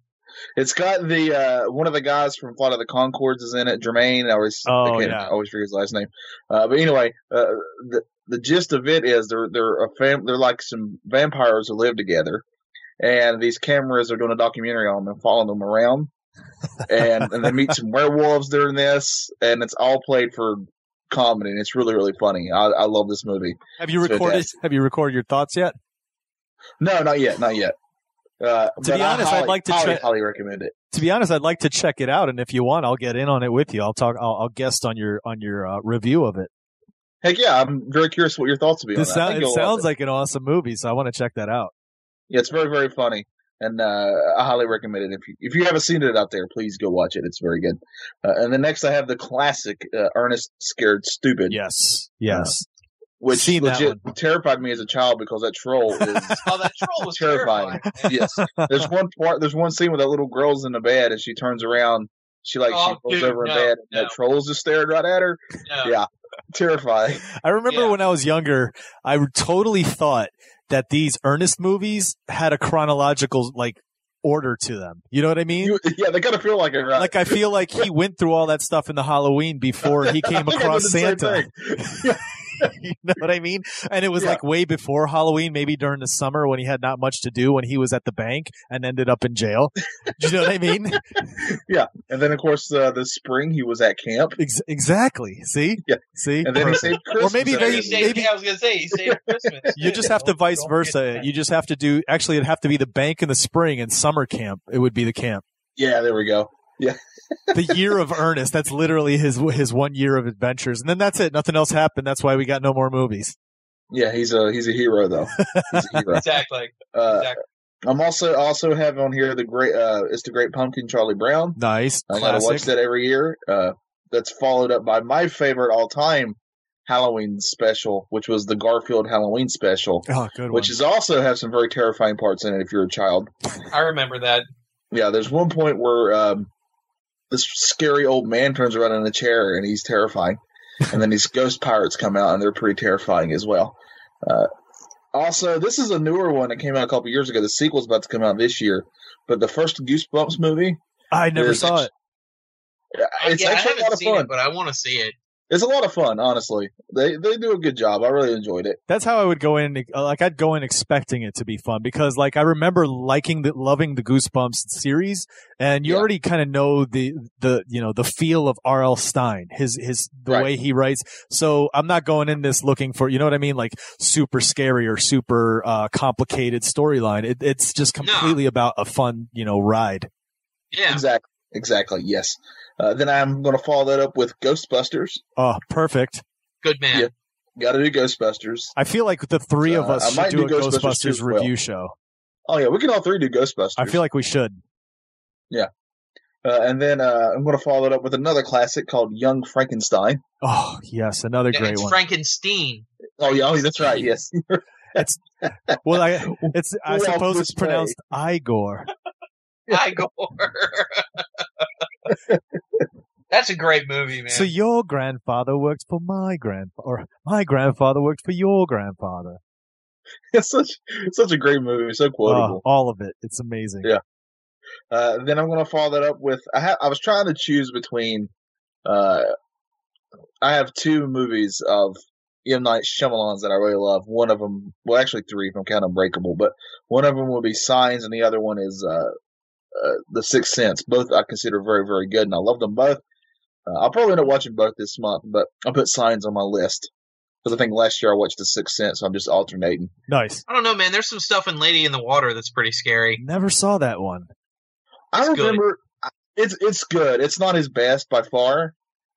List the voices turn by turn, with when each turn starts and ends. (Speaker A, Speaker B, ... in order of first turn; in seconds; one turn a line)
Speaker A: 0.6-12.4
Speaker B: 4.7-5.3
Speaker A: 13.0-16.1
Speaker A: 16.9-24.5
Speaker B: 23.8-25.8
Speaker A: 26.8-27.8
Speaker A: 28.4-30.8
Speaker B: 28.8-30.1
Speaker B: 30.9-36.5
Speaker A: 37.2-39.9
Speaker B: 39.0-41.7
Speaker A: 42.3-51.6
Speaker B: 51.5-52.7
Speaker A: 52.3-52.5
Speaker A: 53.2-56.5
Speaker B: 53.3-54.0
Speaker C: 56.4-58.2
Speaker A: 57.1-67.2
Speaker B: 58.0-58.9
Speaker C: 62.7-64.2
Speaker C: 65.7-65.9
Speaker B: 67.4-75.8
Speaker C: 67.7-68.0
Speaker A: 75.6-77.4
Speaker B: 77.0-91.4
Speaker A: 79.8-82.7
Speaker A: 91.4-94.4
Speaker B: 94.4-98.3
Speaker A: 95.8-98.2
Speaker C: 97.1-101.3
Speaker A: 98.9-99.7
Speaker B: 99.8-105.4
Speaker A: 105.8-107.8
Speaker B: 107.5-113.4
Speaker A: 113.9-116.2
Speaker B: 115.4-116.2
Speaker C: 116.1-117.4
Speaker A: 116.9-117.3
Speaker A: 117.8-121.6
Speaker B: 121.6-122.7
Speaker A: 122.1-133.3
Speaker B: 130.1-130.8
Speaker C: 133.7-134.5
Speaker A: 134.9-136.5
Speaker A: 137.3-144.5
Speaker A: 145.1-150.8
Speaker B: 151.1-151.9
Speaker A: 151.3-151.9
Speaker A: 152.9-154.3
Speaker C: 153.2-155.2
Speaker A: 155.5-158.8
Speaker B: 158.9-180.1
Speaker C: 178.0-178.4
Speaker C: 180.7-181.0
Speaker A: 180.9-185.2
Speaker B: 185.4-186.2
Speaker C: 186.6-187.1
Speaker A: 186.9-188.7
Speaker B: 188.8-191.9
Speaker A: 189.7-191.5
Speaker A: 192.5-194.0
Speaker B: 193.8-194.6
Speaker A: 196.4-200.2
Speaker B: 200.4-202.0
Speaker C: 201.5-204.0
Speaker A: 203.2-205.0
Speaker B: 204.9-205.2
Speaker A: 205.7-207.9
Speaker B: 205.8-208.9
Speaker A: 209.7-210.0
Speaker C: 209.7-211.7
Speaker C: 213.3-214.5
Speaker B: 214.3-219.4
Speaker A: 220.3-222.6
Speaker B: 222.3-223.9
Speaker A: 224.9-228.3
Speaker A: 228.9-229.3
Speaker A: 230.4-239.1
Speaker A: 239.8-243.0
Speaker A: 243.7-246.9
Speaker A: 247.4-249.9
Speaker B: 250.1-250.4
Speaker C: 250.5-253.2
Speaker B: 253.2-254.3
Speaker A: 255.1-258.8
Speaker C: 255.2-255.6